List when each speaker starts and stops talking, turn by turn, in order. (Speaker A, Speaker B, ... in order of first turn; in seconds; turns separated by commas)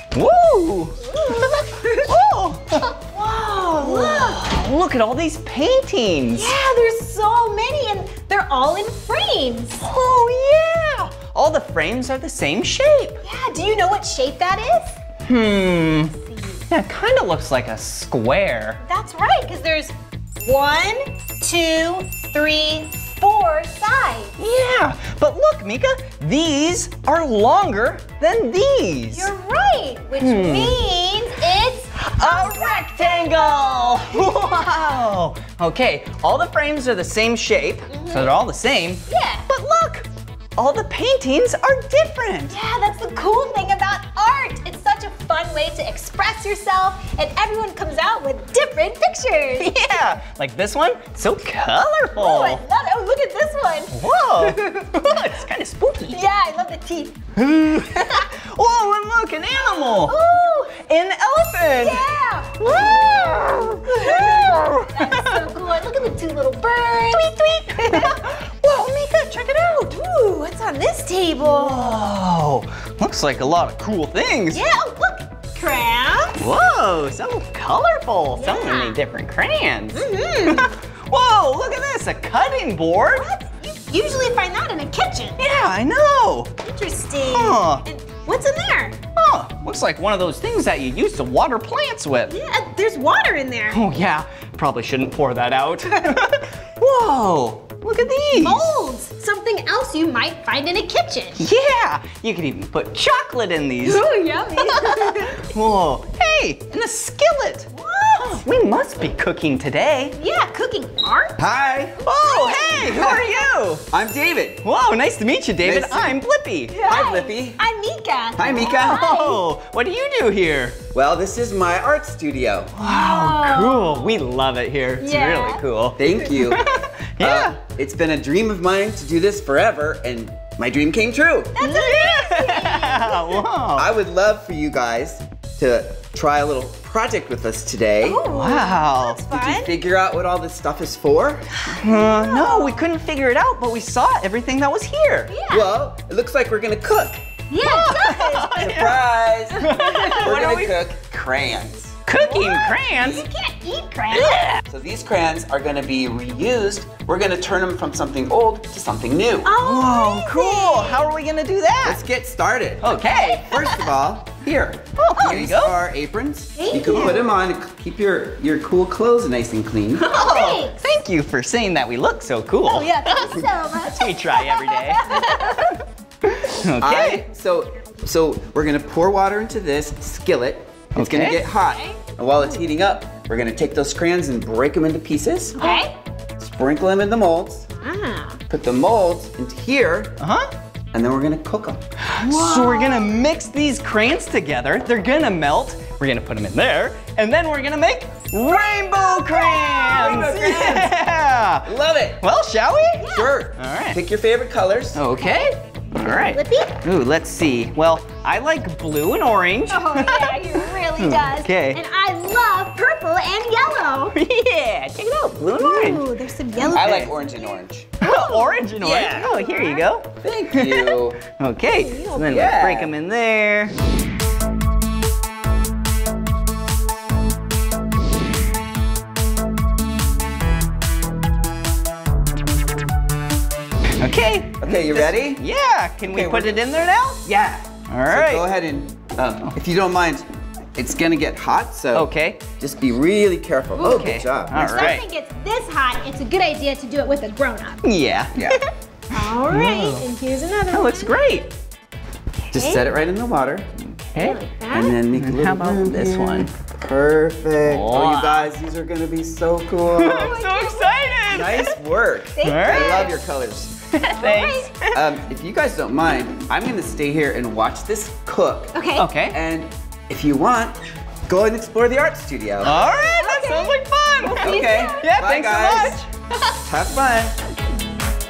Speaker A: 0.1-1.0, Speaker B: 1.0-2.1, Speaker A: 2.0-2.9, Speaker B: 2.8-4.5, Speaker A: 3.8-6.5, Speaker B: 6.3-9.8, Speaker A: 9.8-13.2, Speaker B: 13.2-15.0, Speaker A: 15.2-16.1, Speaker B: 16.2-16.6, Speaker A: 16.7-18.8, Speaker B: 18.8-24.3, Speaker A: 24.4-29.3, Speaker B: 29.1-34.7, Speaker A: 30.2-30.8, Speaker A: 32.0-42.5, Speaker B: 37.9-38.4, Speaker B: 39.1-39.5, Speaker B: 42.5-49.8, Speaker A: 49.6-52.6, Speaker B: 52.1-55.0, Speaker A: 53.9-56.2, Speaker B: 56.1-57.3, Speaker A: 57.4-60.2, Speaker B: 59.7-60.8, Speaker A: 60.7-62.0, Speaker B: 61.7-63.3, Speaker A: 62.6-65.3, Speaker B: 63.8-68.5, Speaker A: 67.2-69.8, Speaker B: 69.7-72.0, Speaker A: 71.4-74.6, Speaker B: 74.5-76.5, Speaker A: 76.4-83.2, Speaker B: 78.3-79.0, Speaker B: 79.9-80.7, Speaker B: 83.1-85.4, Speaker A: 85.4-86.5, Speaker B: 86.6-89.0, Speaker A: 87.3-87.8, Speaker A: 89.2-92.3, Speaker B: 92.3-93.8, Speaker A: 93.7-98.7, Speaker B: 98.3-101.4, Speaker A: 101.4-107.7, Speaker B: 103.8-105.5, Speaker B: 107.7-108.4, Speaker A: 108.3-110.2, Speaker B: 110.1-111.4, Speaker C: 111.4-112.0, Speaker A: 112.0-113.9, Speaker B: 112.2-113.4, Speaker C: 113.9-114.6, Speaker A: 114.6-116.8, Speaker C: 115.6-116.2, Speaker B: 116.7-119.5, Speaker C: 116.8-117.6, Speaker C: 118.3-119.0, Speaker A: 118.5-120.8, Speaker C: 120.9-122.7, Speaker A: 122.7-127.6, Speaker B: 122.8-124.2, Speaker B: 125.0-125.6, Speaker C: 126.0-131.6, Speaker B: 131.6-133.4, Speaker A: 131.6-133.9, Speaker C: 133.8-138.2, Speaker B: 138.0-139.7, Speaker A: 138.3-139.2, Speaker C: 139.3-141.4, Speaker B: 141.6-142.9, Speaker A: 141.7-145.3, Speaker B: 145.3-145.7, Speaker C: 145.5-147.2, Speaker B: 147.5-148.8, Speaker A: 147.6-149.0, Speaker C: 148.5-151.9, Speaker A: 149.5-150.9, Speaker B: 149.6-150.3, Speaker A: 152.1-153.2, Speaker B: 152.1-154.5, Speaker A: 154.1-154.6, Speaker C: 154.7-159.5, Speaker B: 159.4-161.1, Speaker A: 159.6-162.0, Speaker C: 161.8-170.1, Speaker A: 162.8-163.9, Speaker B: 163.1-163.4, Speaker A: 165.0-165.8, Speaker B: 166.6-167.3, Speaker A: 169.9-175.8, Speaker B: 170.1-170.8, Speaker B: 172.7-175.8, Speaker A: 176.3-177.2, Speaker C: 176.8-185.6, Speaker A: 180.9-181.4, Speaker B: 181.6-182.6, Speaker B: 185.6-185.9, Speaker C: 186.4-187.7, Speaker B: 187.8-188.4, Speaker C: 188.5-190.2, Speaker A: 190.2-190.5, Speaker C: 190.9-191.8, Speaker A: 192.1-204.0, Speaker B: 192.2-193.3, Speaker B: 198.4-200.3, Speaker C: 199.9-201.0, Speaker C: 201.6-202.2, Speaker B: 202.9-203.4, Speaker C: 203.1-205.0, Speaker A: 204.9-211.8, Speaker B: 205.2-205.5, Speaker B: 206.2-206.8, Speaker B: 209.7-214.2, Speaker A: 214.1-217.1, Speaker B: 215.5-217.2, Speaker C: 216.7-217.9, Speaker A: 218.0-223.7, Speaker B: 218.0-219.9, Speaker C: 220.2-221.2, Speaker B: 221.7-222.9, Speaker A: 234.0-237.3, Speaker C: 234.6-235.4, Speaker C: 236.0-236.6, Speaker C: 237.2-244.9, Speaker A: 237.9-238.5, Speaker A: 241.9-242.4, Speaker B: 243.8-247.8, Speaker A: 243.8-245.0, Speaker A: 247.8-250.1, Speaker C: 248.3-248.6, Speaker B: 249.1-251.1, Speaker A: 250.7-251.5, Speaker B: 252.5-252.9, Speaker C: 252.5-253.7, Speaker A: 253.8-254.4, Speaker B: 254.2-255.0, Speaker C: 254.7-260.3, Speaker A: 254.9-256.5, Speaker A: 257.6-258.5, Speaker A: 259.9-261.7, Speaker B: 260.0-261.7, Speaker C: 261.3-263.7, Speaker B: 262.3-263.2, Speaker A: 262.4-263.1, Speaker A: 263.9-265.0, Speaker B: 264.0-264.7, Speaker C: 264.9-268.7, Speaker B: 268.7-269.1, Speaker A: 268.9-269.4, Speaker C: 269.3-270.8, Speaker C: 271.3-272.8, Speaker A: 272.6-276.5, Speaker B: 272.8-275.2, Speaker C: 274.4-276.0, Speaker C: 276.6-277.4